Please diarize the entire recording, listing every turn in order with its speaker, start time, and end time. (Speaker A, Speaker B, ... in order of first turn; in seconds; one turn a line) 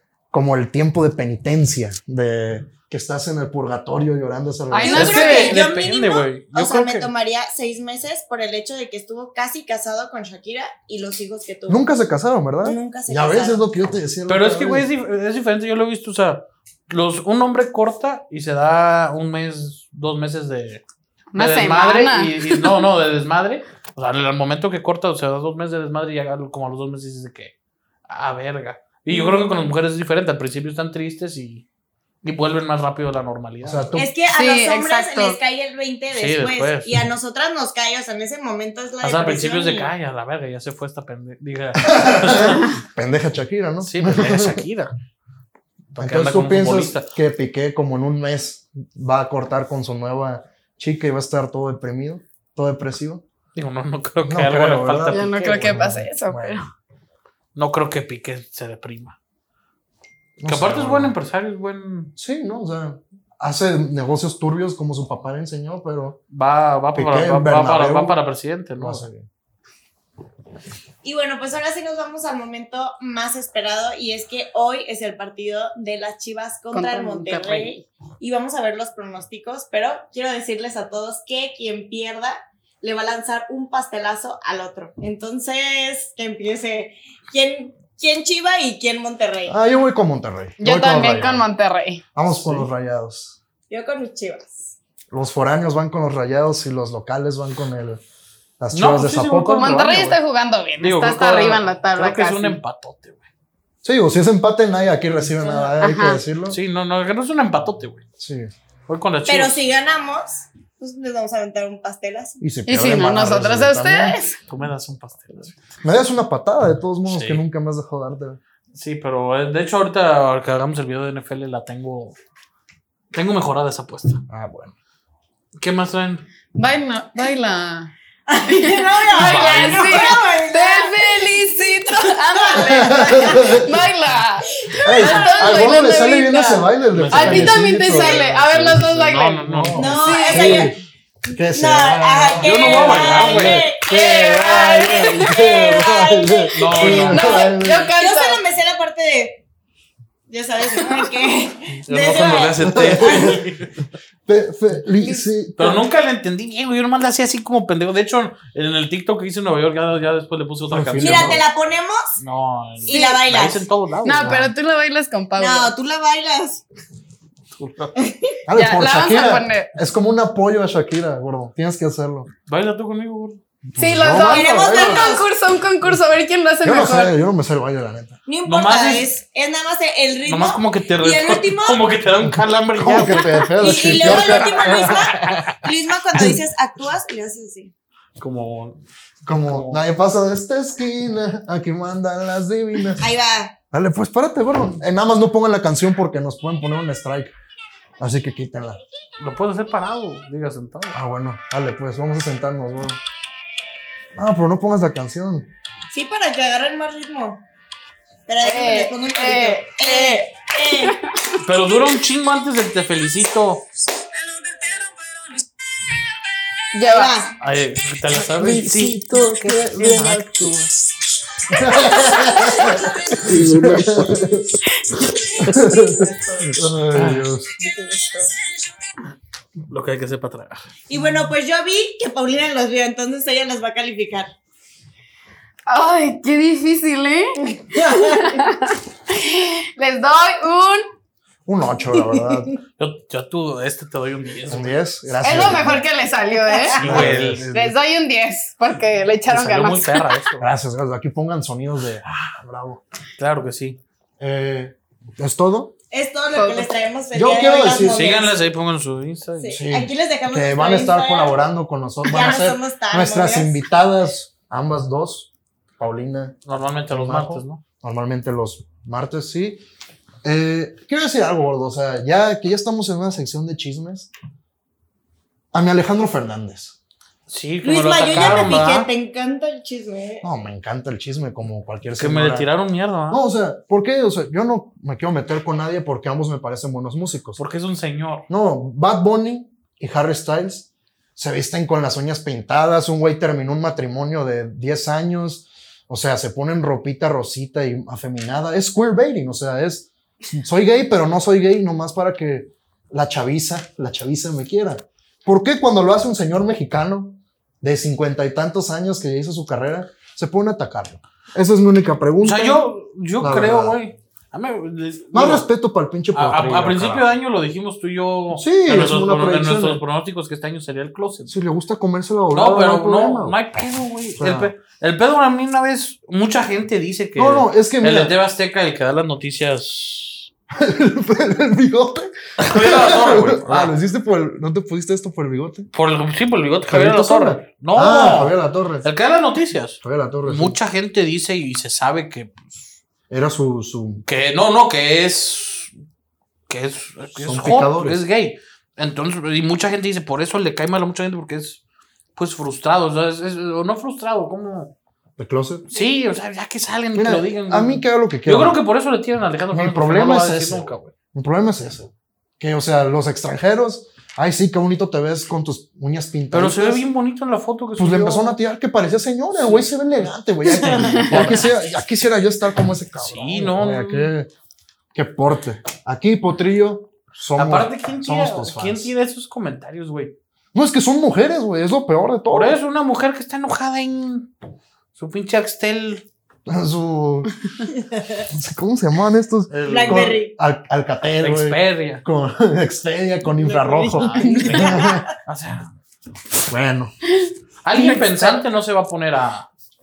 Speaker A: 0.3-5.2
Speaker B: 4.7-5.6
Speaker C: 4.8-11.8
Speaker D: 4.9-7.1
Speaker A: 11.7-14.9
Speaker C: 12.6-13.6
Speaker D: 14.3-20.8
Speaker B: 21.3-22.8
Speaker D: 21.4-27.5
Speaker D: 28.1-31.6
Speaker D: 32.2-33.9
Speaker A: 33.6-34.1
Speaker C: 34.0-39.9
Speaker B: 34.3-35.4
Speaker D: 36.1-37.0
Speaker D: 39.0-42.7
Speaker A: 41.8-44.6
Speaker D: 43.8-44.9
Speaker D: 45.9-47.1
Speaker A: 46.0-53.2
Speaker D: 53.5-55.9
Speaker A: 54.2-56.6
Speaker B: 55.1-56.6
Speaker D: 57.5-59.2
Speaker A: 60.4-61.1
Speaker D: 60.5-62.1
Speaker A: 62.1-66.2
Speaker D: 66.3-69.1
Speaker A: 66.9-68.2
Speaker A: 68.8-69.3
Speaker C: 71.0-89.5
Speaker B: 76.7-77.7
Speaker A: 89.5-91.4
Speaker B: 90.6-92.0
Speaker A: 92.1-93.4
Speaker D: 92.3-92.7
Speaker C: 93.7-94.7
Speaker A: 95.1-98.0
Speaker A: 98.6-99.7
Speaker D: 98.7-100.2
Speaker B: 99.5-102.6
Speaker D: 100.8-103.2
Speaker A: 103.8-106.6
Speaker B: 105.8-106.2
Speaker D: 106.5-108.0
Speaker A: 108.2-108.5
Speaker D: 108.9-109.6
Speaker C: 109.2-112.4
Speaker A: 112.4-114.2
Speaker B: 112.7-114.4
Speaker D: 114.5-115.6
Speaker A: 115.8-118.4
Speaker D: 117.0-117.4
Speaker D: 118.7-122.2
Speaker D: 123.1-124.2
Speaker A: 124.3-124.7
Speaker D: 125.6-126.2
Speaker B: 126.5-140.7
Speaker C: 128.4-131.3
Speaker D: 129.1-130.1
Speaker C: 132.1-133.5
Speaker A: 132.6-133.7
Speaker C: 134.7-135.5
Speaker A: 134.8-138.2
Speaker D: 136.9-140.2
Speaker A: 139.4-140.8
Speaker C: 139.8-140.8
Speaker A: 141.3-147.9
Speaker C: 141.5-149.4
Speaker D: 142.4-143.8
Speaker B: 143.9-146.0
Speaker D: 146.5-147.3
Speaker B: 147.1-148.4
Speaker C: 150.3-153.3
Speaker D: 151.8-153.7
Speaker A: 152.6-153.4
Speaker A: 154.2-155.8
Speaker D: 155.6-161.4
Speaker A: 160.7-161.4
Speaker C: 161.0-162.2
Speaker D: 162.2-164.5
Speaker C: 162.8-163.7
Speaker B: 162.9-163.2
Speaker B: 164.0-165.7
Speaker A: 164.2-164.5
Speaker C: 165.4-166.6
Speaker D: 167.5-168.0
Speaker C: 167.9-168.4
Speaker A: 168.5-172.3
Speaker B: 168.5-169.7
Speaker D: 172.4-173.4
Speaker A: 173.7-175.1
Speaker B: 173.8-177.1
Speaker C: 174.2-175.3
Speaker A: 176.6-178.2
Speaker C: 178.3-181.8
Speaker D: 178.4-179.1
Speaker D: 180.2-185.6
Speaker A: 182.2-185.5
Speaker C: 183.6-187.7
Speaker A: 186.1-186.4
Speaker D: 188.2-189.8
Speaker A: 189.2-193.1
Speaker C: 193.0-193.5
Speaker A: 193.7-197.3
Speaker A: 198.0-198.8
Speaker D: 199.2-201.0
Speaker A: 200.9-203.0
Speaker A: 204.2-205.5
Speaker C: 205.9-207.4
Speaker C: 208.3-211.0
Speaker B: 208.4-211.4
Speaker D: 211.4-213.7
Speaker B: 216.7-217.2
Speaker C: 216.9-217.3
Speaker D: 217.4-220.6
Speaker A: 218.1-220.7
Speaker A: 221.5-224.6
Speaker B: 222.3-222.8
Speaker D: 223.3-224.0
Speaker A: 225.4-227.6
Speaker D: 226.9-227.3
Speaker B: 227.6-228.0
Speaker D: 229.7-230.7
Speaker C: 230.9-234.3
Speaker B: 235.7-240.8
Speaker C: 237.6-238.4
Speaker A: 241.4-242.5
Speaker D: 242.8-245.7
Speaker A: 244.5-245.8
Speaker B: 245.2-250.2
Speaker C: 246.5-246.8
Speaker D: 246.7-247.5
Speaker A: 246.8-247.8
Speaker D: 249.3-250.5
Speaker A: 250.4-252.8
Speaker D: 253.2-253.8
Speaker A: 254.2-255.7
Speaker C: 255.9-258.4
Speaker B: 256.3-256.7
Speaker A: 257.1-258.1
Speaker D: 257.8-259.6
Speaker C: 259.4-261.5
Speaker A: 259.6-269.6
Speaker C: 262.0-263.6
Speaker D: 266.4-267.6
Speaker A: 270.2-274.1
Speaker A: 275.5-276.8
Speaker D: 277.3-278.9
Speaker C: 277.6-280.2
Speaker A: 280.2-282.5
Speaker D: 282.0-283.2
Speaker A: 283.1-287.4
Speaker D: 287.4-288.3
Speaker A: 288.3-313.8
Speaker D: 312.2-315.5
Speaker A: 315.1-317.1
Speaker D: 316.1-321.3
Speaker A: 318.3-319.8
Speaker A: 321.3-323.4
Speaker D: 322.3-330.3
Speaker A: 324.2-324.5
Speaker A: 327.1-328.1
Speaker A: 330.5-335.7
Speaker D: 332.4-333.7
Speaker D: 335.7-342.7
Speaker A: 336.7-338.9
Speaker A: 339.8-340.6
Speaker A: 343.1-344.0
Speaker D: 344.0-345.7
Speaker D: 346.5-351.6
Speaker A: 347.1-348.0
Speaker D: 352.1-354.7
Speaker A: 355.2-355.7
Speaker D: 355.7-360.9
Speaker A: 356.9-358.6
Speaker A: 359.5-366.8
Speaker D: 366.3-368.4
Speaker A: 367.8-374.3
Speaker D: 369.3-369.7
Speaker D: 370.9-371.6
Speaker D: 373.0-374.1
Speaker A: 374.9-378.9
Speaker D: 377.4-380.1
Speaker A: 380.5-382.6
Speaker D: 382.3-384.3
Speaker D: 384.9-386.1
Speaker A: 386.5-387.3
Speaker C: 387.8-388.2
Speaker A: 388.3-395.1
Speaker D: 389.5-390.2
Speaker C: 389.6-390.3
Speaker D: 391.2-392.0
Speaker C: 393.4-395.1
Speaker D: 393.9-395.7
Speaker A: 396.5-396.9
Speaker D: 397.6-399.5
Speaker A: 397.8-398.4